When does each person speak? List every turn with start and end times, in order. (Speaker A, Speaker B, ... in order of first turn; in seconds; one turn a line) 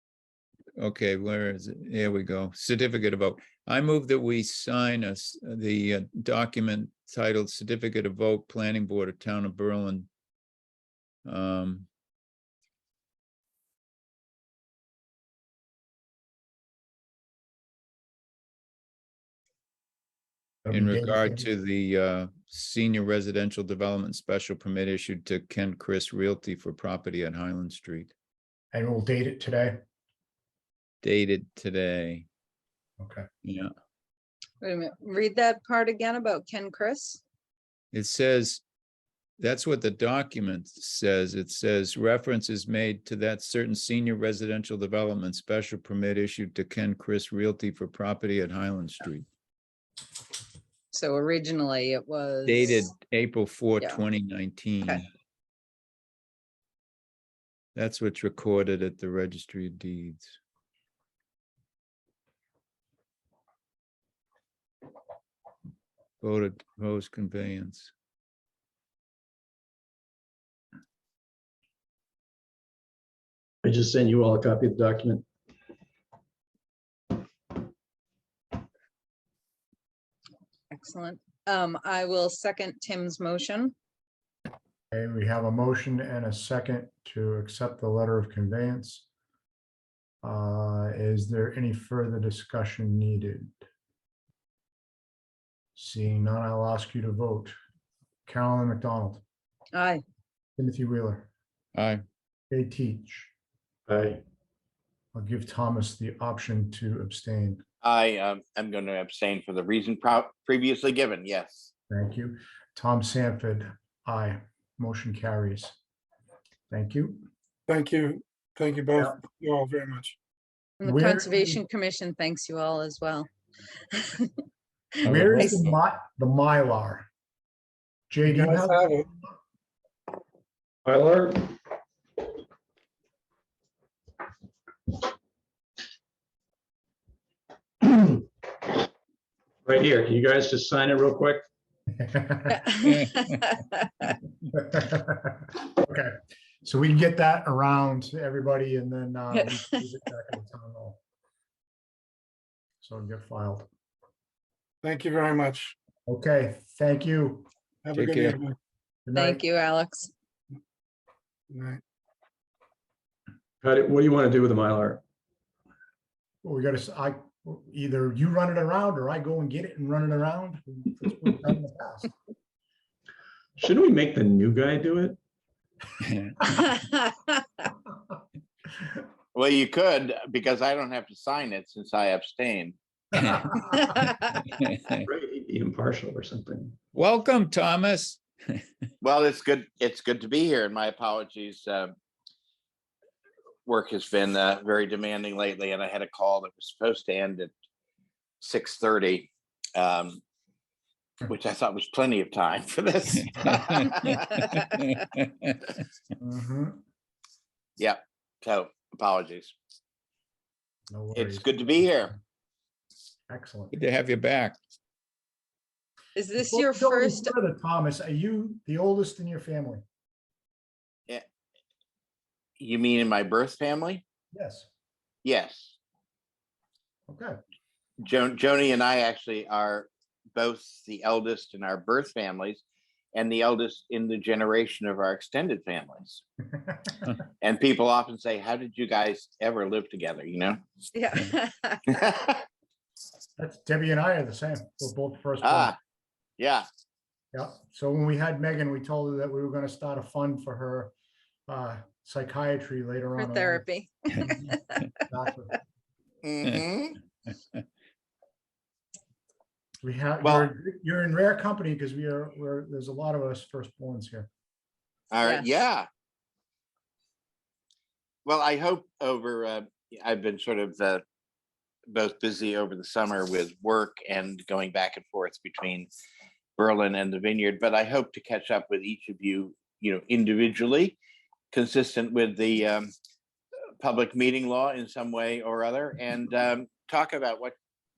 Speaker A: 0.8-10.1
Speaker A: 11.2-11.9
Speaker B: 20.6-21.5
Speaker A: 20.7-28.1
Speaker B: 28.7-29.8
Speaker A: 31.0-32.3
Speaker B: 33.0-33.3
Speaker A: 33.4-33.7
Speaker C: 34.6-37.2
Speaker A: 37.9-38.6
Speaker A: 39.4-49.2
Speaker C: 50.9-52.8
Speaker A: 52.5-55.0
Speaker A: 57.7-60.3
Speaker A: 66.2-67.9
Speaker D: 73.6-75.2
Speaker C: 80.7-83.7
Speaker B: 84.9-89.0
Speaker B: 90.2-93.6
Speaker B: 95.8-97.5
Speaker B: 98.2-99.2
Speaker C: 99.7-100.0
Speaker B: 100.6-101.3
Speaker A: 101.7-102.0
Speaker B: 102.5-103.3
Speaker D: 103.9-104.2
Speaker B: 105.1-107.6
Speaker E: 107.8-111.7
Speaker B: 111.9-115.8
Speaker B: 116.7-117.2
Speaker F: 117.7-120.2
Speaker C: 120.8-123.3
Speaker B: 120.8-121.6
Speaker C: 123.9-124.3
Speaker B: 125.0-127.0
Speaker A: 125.0-125.7
Speaker B: 128.1-129.3
Speaker F: 128.3-129.1
Speaker D: 130.9-131.5
Speaker D: 137.9-138.2
Speaker D: 139.7-141.5
Speaker B: 142.0-142.7
Speaker C: 142.6-144.1
Speaker B: 144.5-151.0
Speaker B: 152.8-153.7
Speaker F: 154.8-155.7
Speaker B: 156.1-157.5
Speaker F: 157.8-158.6
Speaker A: 157.9-158.4
Speaker B: 159.1-159.4
Speaker C: 159.1-160.1
Speaker F: 161.5-161.8
Speaker D: 163.6-165.0
Speaker B: 166.4-172.1
Speaker D: 173.6-175.2
Speaker A: 176.0-176.5
Speaker E: 179.3-182.8
Speaker A: 183.1-185.0
Speaker D: 185.1-186.8
Speaker A: 186.9-188.6
Speaker E: 189.0-191.9
Speaker E: 193.7-197.5
Speaker E: 198.4-200.2
Speaker E: 201.3-204.2
Speaker A: 203.3-205.6
Speaker B: 206.2-206.8
Speaker E: 207.8-209.5
Speaker B: 210.9-212.2
Speaker E: 211.1-212.1
Speaker B: 213.3-213.7
Speaker A: 213.7-214.6
Speaker C: 216.1-217.3
Speaker B: 216.4-219.8
Speaker E: 222.6-224.0
Speaker B: 224.3-224.7
Speaker E: 225.2-225.8
Speaker B: 227.1-227.4
Speaker E: 228.0-232.6
Speaker E: 233.1-236.2
Speaker B: 236.6-237.0
Speaker E: 237.4-240.6
Speaker C: 240.9-241.8
Speaker B: 243.4-245.7
Speaker E: 245.4-245.8
Speaker E: 246.4-246.7
Speaker B: 247.3-250.9
Speaker B: 251.5-253.6
Speaker C: 253.1-254.9
Speaker B: 255.1-255.6
Speaker E: 256.2-257.0
Speaker B: 259.8-264.3
Speaker E: 265.1-265.9
Speaker E: 268.3-271.0
Speaker E: 271.9-275.9
Speaker E: 276.6-281.0
Speaker E: 281.5-282.9
Speaker E: 283.8-287.5